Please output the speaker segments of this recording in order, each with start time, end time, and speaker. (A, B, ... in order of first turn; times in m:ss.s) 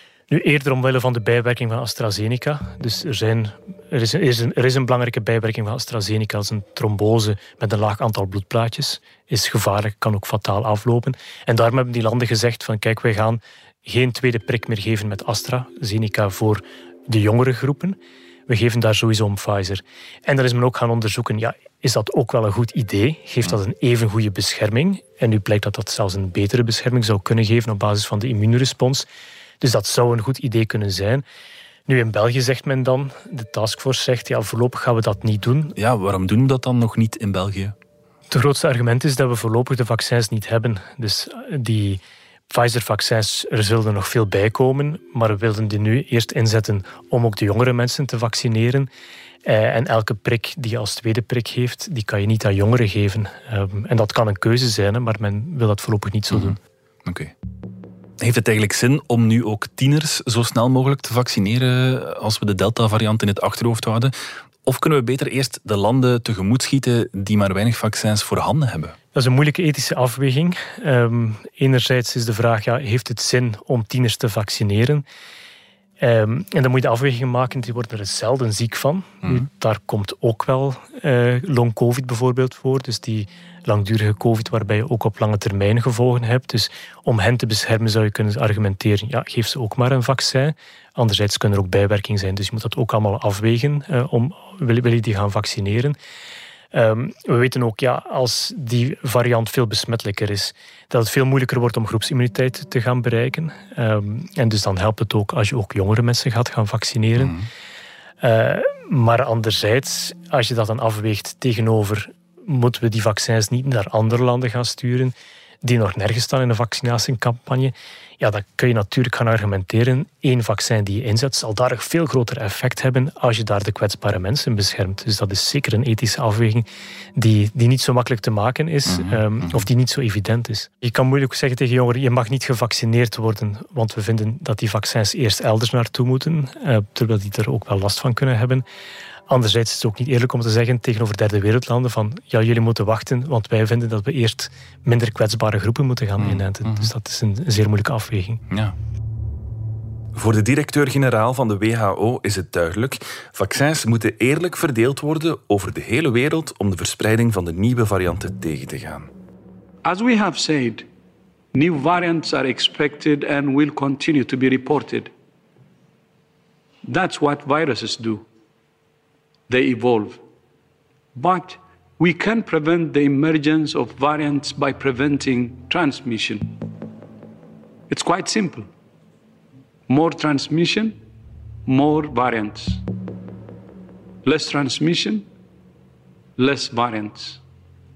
0:00.3-0:29.1 A
0:29.6-0:31.2 A
0:31.9-0:35.8 A
0:35.8-0:37.8 B
0:38.3-0:48.9 A
0:49.4-0:56.6 A
0:56.3-0:57.3 B
0:58.2-1:09.0 B
1:09.1-1:15.0 A
1:16.0-1:36.0 A
1:36.7-1:47.4 A
1:47.2-1:47.5 B
1:48.2-2:18.6 A
2:08.9-2:09.7 B
2:19.3-2:28.4 A
2:26.2-2:26.9 B
2:28.5-2:28.8 B
2:30.2-2:39.1 B
2:39.8-2:40.8 C
2:41.5-2:45.1 C
2:46.8-2:48.2 C
2:49.5-2:50.2 C
2:51.2-2:56.6 C
2:57.9-2:58.7 C
2:59.9-3:01.0 C
3:01.7-3:02.8 C
3:04.2-3:05.2 C
3:06.4-3:07.4 C